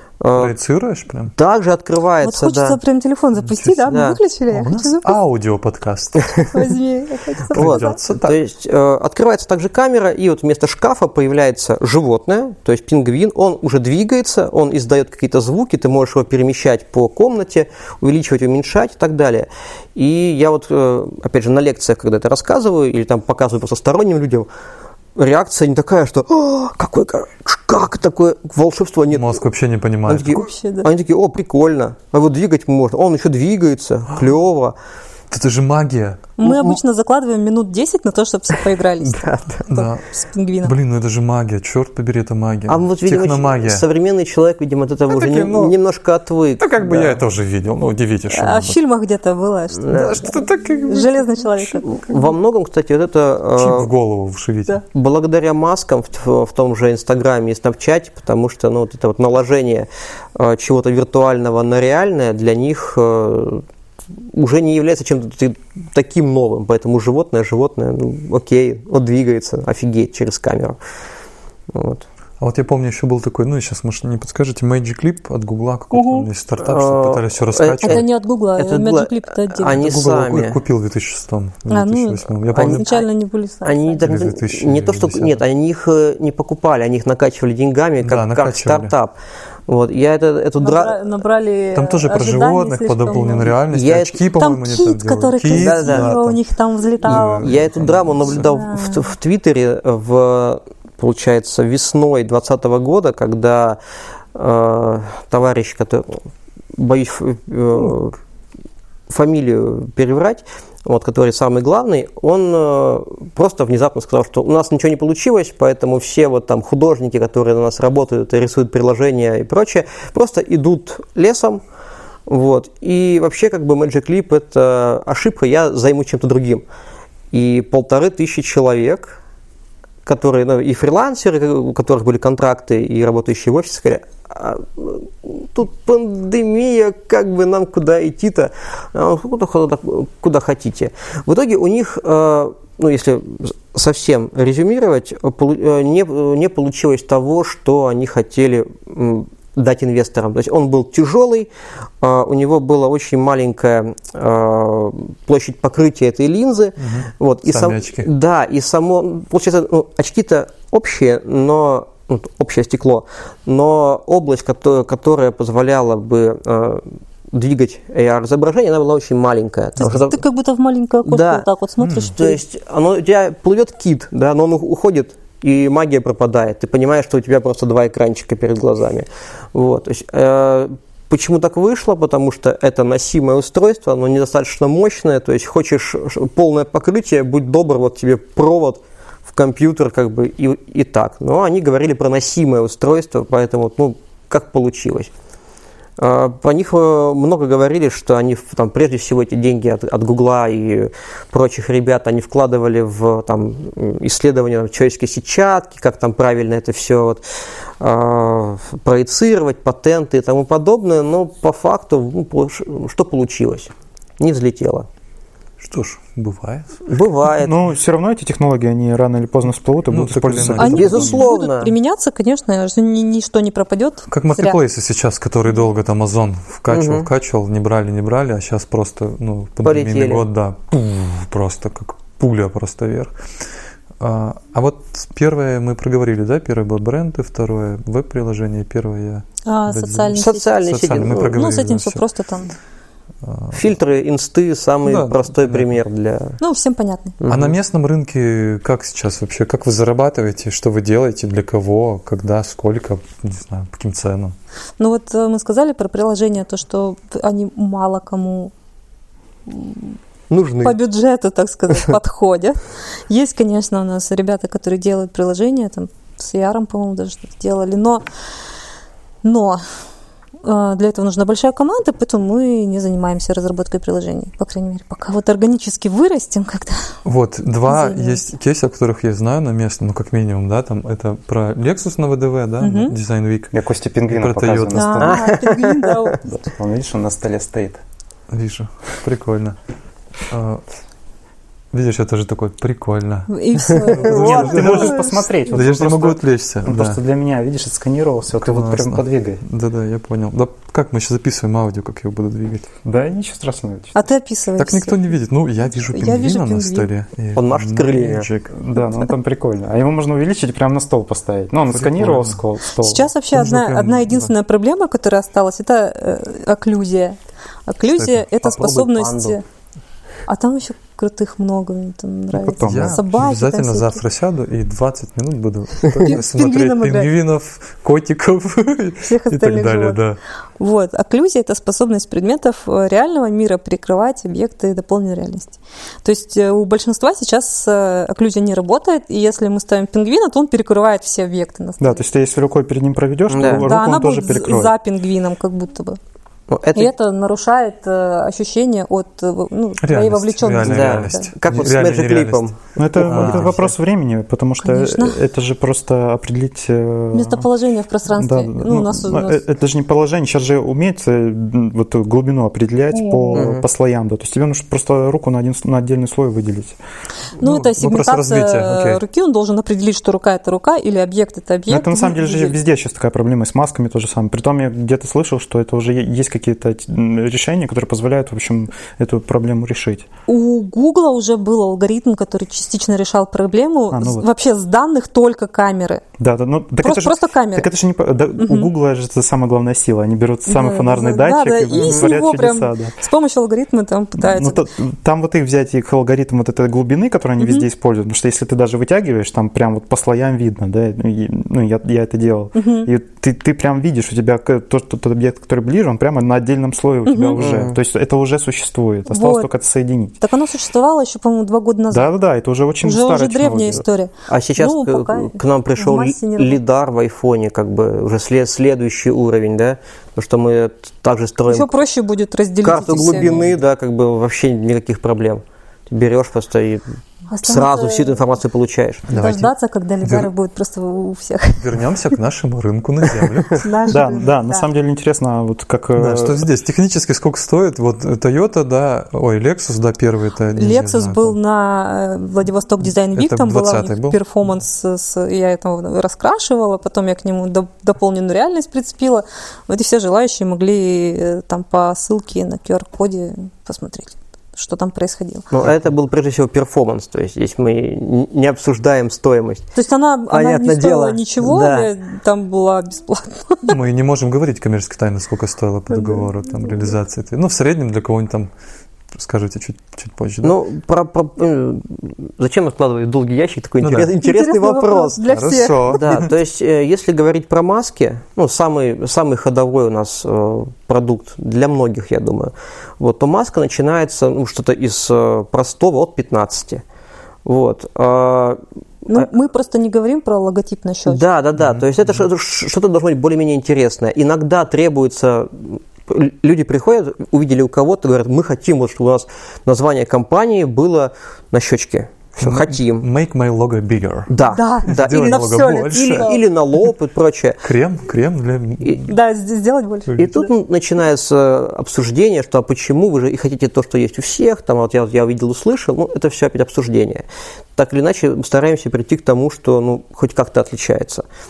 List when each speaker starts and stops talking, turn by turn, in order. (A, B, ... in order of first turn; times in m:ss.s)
0:00.2-0:00.5 A
0:00.3-0:01.3 B
0:01.4-0:02.8 A
0:02.2-0:05.1 C
0:03.4-0:06.4 B
0:03.9-0:04.2 A
0:06.5-0:08.0 C
0:07.5-0:08.4 B
0:07.5-0:24.5 A
0:25.2-0:29.4 A
0:29.1-0:30.4 B
0:30.1-0:34.7 A
0:30.3-0:30.9 C
0:35.3-0:36.3 B
0:36.4-0:40.7 C
0:36.4-0:36.8 A
0:39.0-0:39.6 A
0:39.7-0:40.0 B
0:40.6-0:43.8 B
0:42.7-0:47.2 A
0:45.1-0:45.7 B
0:46.6-0:48.8 B
0:48.3-0:52.0 C
0:49.8-0:50.3 A
0:49.9-0:51.6 B
0:51.8-0:53.9 A
0:53.6-0:54.8 B
0:54.9-1:03.6 A
1:04.2-1:10.8 A
1:11.7-1:12.0 A
1:12.4-1:18.0 B
1:15.9-1:16.3 C
1:16.6-1:20.6 A
1:17.8-1:19.8 C
1:19.7-1:22.8 B
1:21.7-1:24.1 C
1:22.5-1:23.0 A
1:23.6-1:29.1 A
1:24.0-1:25.4 B
1:28.0-1:28.9 B
1:29.7-1:31.0 A
1:30.6-1:33.6 C
1:31.7-1:36.4 B
1:33.7-1:34.2 A
1:34.3-1:37.6 C
1:35.5-1:36.1 A
1:37.0-1:38.5 B
1:37.0-1:43.8 A
1:38.2-1:39.1 C
1:44.3-1:46.2 A
1:46.8-1:48.2 A
1:49.1-2:01.6 A
2:02.3-2:06.6 A
2:07.3-2:09.2 A
2:10.0-2:31.5 A
2:32.0-2:50.2 A
2:36.8-2:38.1 B
2:49.8-2:52.4 C
2:51.0-2:51.5 A
2:51.8-2:52.1 B
2:52.1-3:15.1 A
3:16.0-3:27.2 A
3:27.8-3:34.9 A
3:35.6-3:36.8 B
3:36.9-3:37.5 A
3:37.4-3:41.2 D
3:39.9-3:41.1 B
3:40.6-3:44.6 C
3:40.6-3:41.7 A
3:44.1-3:53.1 B
3:46.7-3:47.1 A
3:49.6-3:50.2 A
3:54.0-4:02.0 B
3:59.4-4:00.6 C
4:00.1-4:01.4 A
4:01.2-4:02.5 C
4:03.2-4:03.7 B
4:03.5-4:06.4 A
4:04.8-4:05.7 B
4:06.4-4:07.2 C
4:07.2-4:07.6 A
4:07.3-4:14.3 B
4:14.8-4:18.5 C
4:19.5-4:19.9 C
4:20.3-4:20.8 A
4:20.6-4:22.6 C
4:23.1-4:28.0 C
4:29.2-4:29.6 C
4:30.4-4:36.9 C
4:37.0-4:45.1 B
4:37.7-4:38.2 C
4:42.6-4:42.9 C
4:43.5-4:45.4 D
4:44.7-4:46.2 C
4:45.0-4:46.0 A
4:46.2-4:47.8 D
4:48.3-4:49.6 B
4:50.3-4:50.6 B
4:51.7-4:57.0 B
4:53.3-4:55.2 C
4:53.8-4:54.5 A
4:54.0-4:59.4 D
4:58.4-5:02.7 B
5:02.8-5:03.9 D
5:03.9-5:05.1 C
5:04.6-5:08.5 B
5:05.8-5:06.9 C
5:07.3-5:08.3 A
5:08.5-5:13.1 D
5:11.7-5:12.4 B
5:12.8-5:19.4 C
5:13.3-5:14.3 B
5:17.9-5:18.2 B
5:18.4-5:19.4 A
5:20.3-5:24.0 C
5:22.3-5:23.0 D
5:22.6-5:30.2 B
5:26.0-5:27.1 C
5:29.0-5:30.0 C
5:30.6-5:42.0 C
5:41.8-5:44.7 D
5:43.3-5:43.7 A
5:43.6-5:46.0 C
5:46.5-5:46.9 A
5:46.7-5:51.3 C
5:49.8-5:52.5 B
5:50.6-5:53.6 A
5:52.8-5:57.5 D
5:53.0-5:53.7 B
5:54.6-5:55.2 C
5:57.1-5:59.4 C
5:58.1-6:06.8 D
6:02.9-6:03.5 C
6:03.3-6:03.6 A
6:07.4-6:12.6 C
6:07.4-6:09.0 B
6:11.7-6:20.1 D
6:20.3-6:26.0 C
6:23.9-6:24.3 D
6:26.2-6:33.0 D
6:26.8-6:27.7 C
6:28.4-6:28.7 C
6:30.4-6:34.6 C
6:31.8-6:32.1 A
6:34.2-6:50.2 D
6:37.4-6:37.6 C
6:42.5-6:42.9 C
6:47.0-6:47.4 C
6:47.4-6:47.8 A
6:49.1-6:49.5 C
6:50.2-6:52.1 C
6:51.9-6:53.8 D
6:52.8-6:56.6 C
6:54.3-7:01.7 A
7:01.5-7:03.4 C
7:02.6-7:06.8 A
7:07.3-7:08.1 C
7:07.4-7:09.1 A
7:09.1-7:09.5 B
7:09.1-7:11.8 C
7:10.0-7:10.3 B
7:11.6-7:13.7 B
7:13.6-7:14.7 C
7:13.9-7:16.4 D
7:16.0-7:21.4 B
7:20.5-7:35.5 C
7:22.8-7:24.2 B
7:35.5-7:39.7 A
7:39.7-7:43.8 C
7:40.3-7:41.9 A
7:43.6-7:48.5 B
7:45.9-7:46.2 C
7:49.1-7:50.6 B
7:50.4-7:55.2 A
7:53.8-7:54.1 B
7:54.2-7:56.3 C
7:55.3-7:56.3 B
7:55.9-8:06.8 A
8:07.4-8:08.6 A
8:09.1-8:11.2 C
8:11.1-8:23.0 A
8:11.6-8:12.2 B
8:22.4-8:26.4 B
8:24.3-8:27.6 A
8:24.5-8:26.4 C
8:27.6-8:29.1 B
8:29.0-8:30.5 C
8:30.2-8:37.2 A
8:37.8-8:41.2 A